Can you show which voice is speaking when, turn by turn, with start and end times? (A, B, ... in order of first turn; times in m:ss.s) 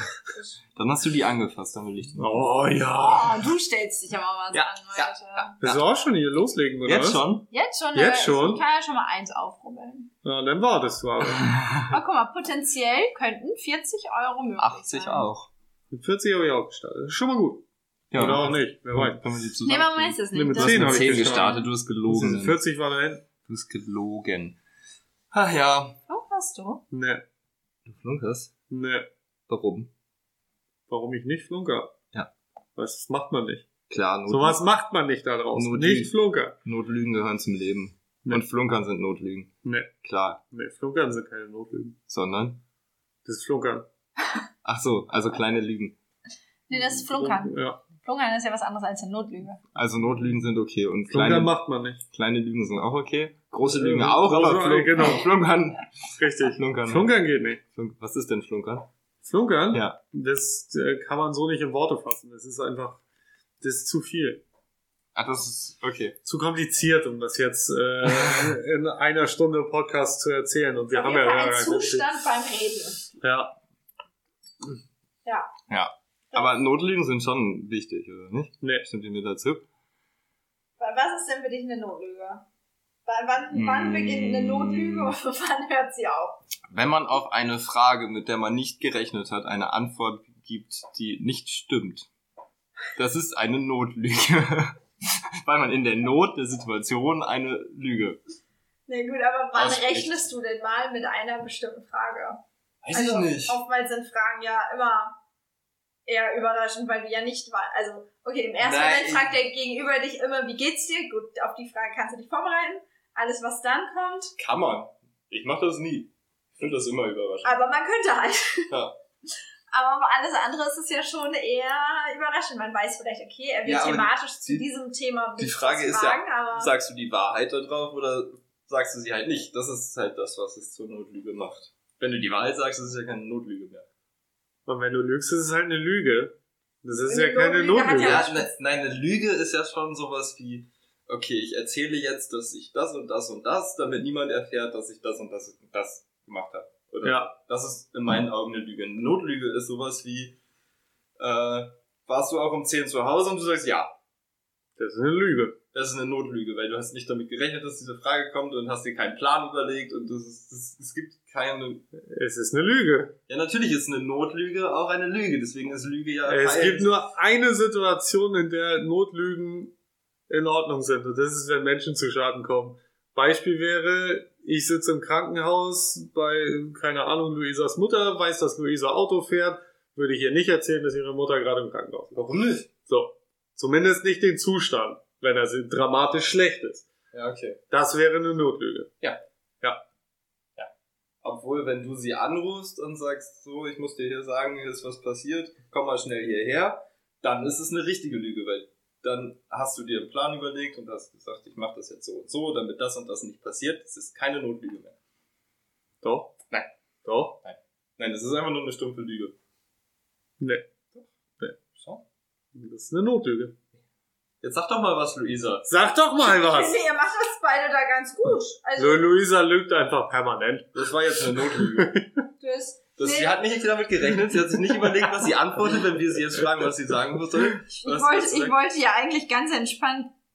0:00.3-0:00.6 A
0:00.7-0:02.5 B
0:02.2-0:03.4 C
0:03.0-0:05.5 A
0:04.5-0:05.8 B
0:05.6-0:07.2 C
0:06.8-0:07.5 B
0:07.5-0:10.1 A
0:07.9-0:08.6 C
0:10.2-0:11.5 C
0:11.5-0:11.9 B
0:11.9-0:15.3 A
0:14.6-0:15.5 B
0:15.9-0:19.2 C
0:18.1-0:22.6 B
0:19.6-0:21.7 A
0:20.3-0:23.2 C
0:23.4-0:24.6 B
0:25.3-0:26.0 B
0:26.1-0:26.8 A
0:26.9-0:27.2 C
0:27.8-0:28.5 B
0:28.7-0:29.1 C
0:29.5-0:29.9 B
0:30.9-0:31.9 C
0:32.8-0:33.7 C
0:33.9-0:34.6 B
0:34.3-0:36.6 C
0:35.5-0:39.5 B
0:39.6-0:39.9 C
0:40.0-0:40.4 B
0:40.5-0:42.0 C
0:42.1-0:42.6 B
0:43.2-0:43.9 C
0:44.6-0:45.9 B
0:46.7-0:49.6 A
0:46.7-0:47.8 C
0:49.7-0:51.6 B
0:51.1-0:52.0 C
0:52.1-0:58.9 B
0:53.6-0:55.3 C
0:56.2-0:57.6 C
0:59.2-1:03.0 C
0:59.7-1:00.0 B
1:03.6-1:04.4 C
1:05.1-1:06.2 B
1:06.2-1:12.1 C
1:08.1-1:08.5 B
1:10.9-1:13.1 A
1:13.2-1:13.5 C
1:15.2-1:15.5 A
1:15.7-1:19.6 B
1:18.6-1:18.8 C
1:20.8-1:22.4 A
1:23.0-1:26.4 A
1:23.5-1:25.1 B
1:26.7-1:32.1 B
1:33.0-1:38.2 B
1:38.9-1:45.2 A
1:39.5-1:40.2 B
1:42.8-1:43.6 B
1:46.0-1:54.3 A
1:48.6-1:49.3 B
1:54.4-1:57.5 B
1:57.4-1:58.7 A
1:58.7-1:58.9 B
1:59.7-2:06.7 A
2:03.6-2:04.6 B
2:05.4-2:13.9 B
2:14.7-2:18.2 C
2:17.1-2:18.5 A
2:18.0-2:30.4 B
2:27.0-2:27.3 C
2:31.2-2:33.9 B
2:34.8-2:35.6 C
2:35.7-2:41.8 B
2:41.9-2:43.2 C
2:43.3-2:46.9 B
2:46.2-2:49.7 C
2:50.3-3:02.2 C
3:02.1-3:02.7 B
3:02.8-3:06.9 C
3:07.1-3:07.6 B
3:07.7-3:08.9 C
3:11.2-3:25.0 B
3:26.0-3:26.4 C
3:27.0-3:27.4 C
3:27.4-3:29.4 B
3:30.4-3:30.6 C
3:31.7-3:32.0 B
3:32.5-3:33.5 C
3:34.4-3:35.7 B
3:35.7-3:36.8 C
3:36.2-3:39.0 A
3:38.8-3:40.7 C
3:40.7-3:42.0 B
3:41.5-3:42.1 C
3:42.4-3:43.4 A
3:43.0-3:48.5 B
3:47.7-3:50.1 A